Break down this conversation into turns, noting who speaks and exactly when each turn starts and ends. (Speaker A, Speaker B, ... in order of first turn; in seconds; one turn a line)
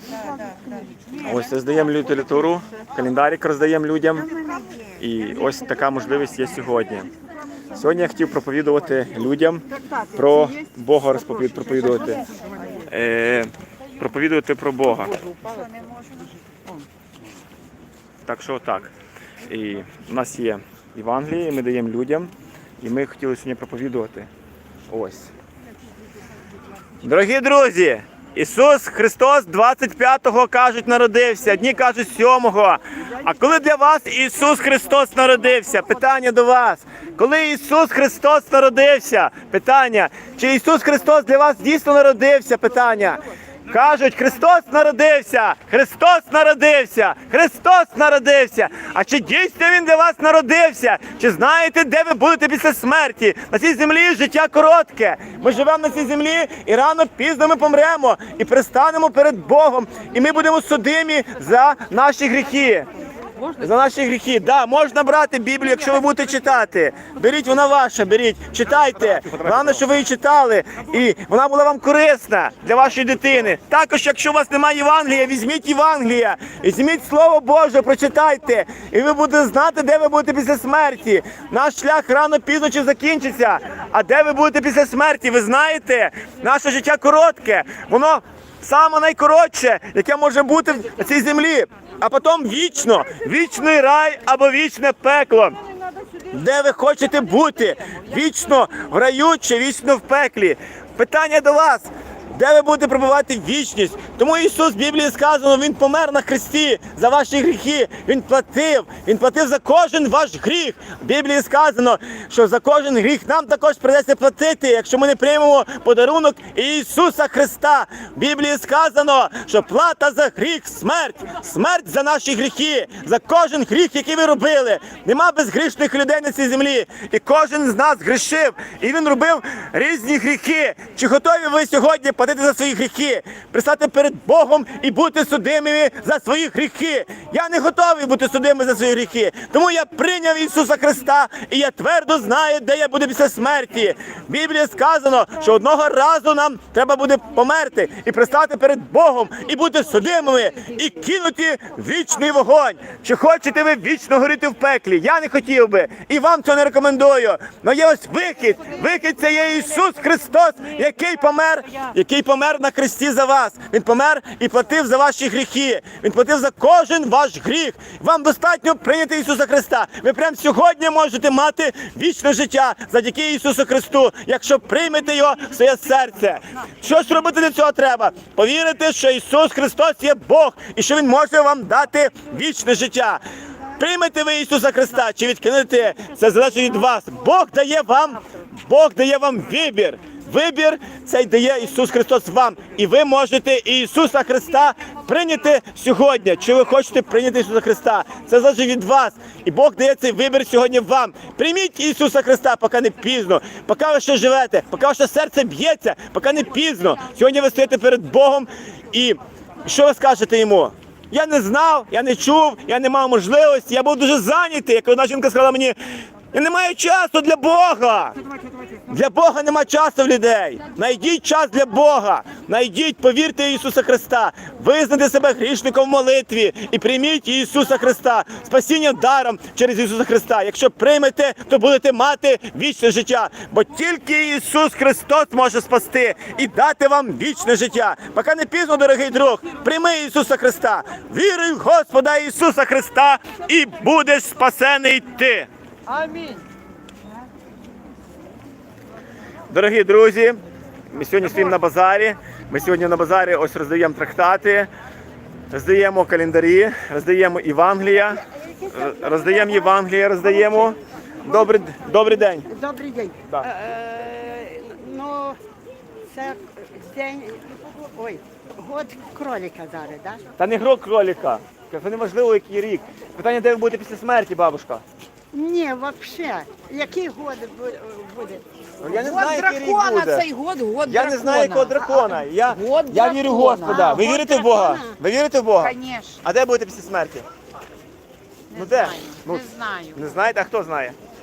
Speaker A: 1.2-4.3
Speaker A: 5.0-7.1
Speaker A: 7.7-12.2
Speaker A: 12.8-15.2
Speaker B: 15.1-16.3
Speaker A: 18.2-18.9
Speaker A: 19.5-24.3
Speaker A: 24.9-25.3
Speaker A: 27.0-62.9
Speaker B: 63.4-63.7
Speaker A: 63.6-95.6
Speaker B: 65.6-66.6
Speaker A: 96.3-183.2
Speaker A: 183.8-215.8
Speaker A: 216.3-218.2
Speaker A: 218.9-245.5
Speaker A: 249.5-254.7
Speaker A: 255.5-262.5
Speaker C: 258.3-259.8
Speaker C: 262.4-265.4
Speaker C: 266.1-270.2
Speaker A: 270.4-274.8
Speaker C: 275.3-278.5
Speaker A: 278.8-280.3
Speaker B: 279.0-284.2
Speaker A: 280.9-287.2
Speaker C: 283.7-285.0
Speaker B: 285.6-286.2
Speaker B: 288.5-290.0
Speaker A: 288.6-291.0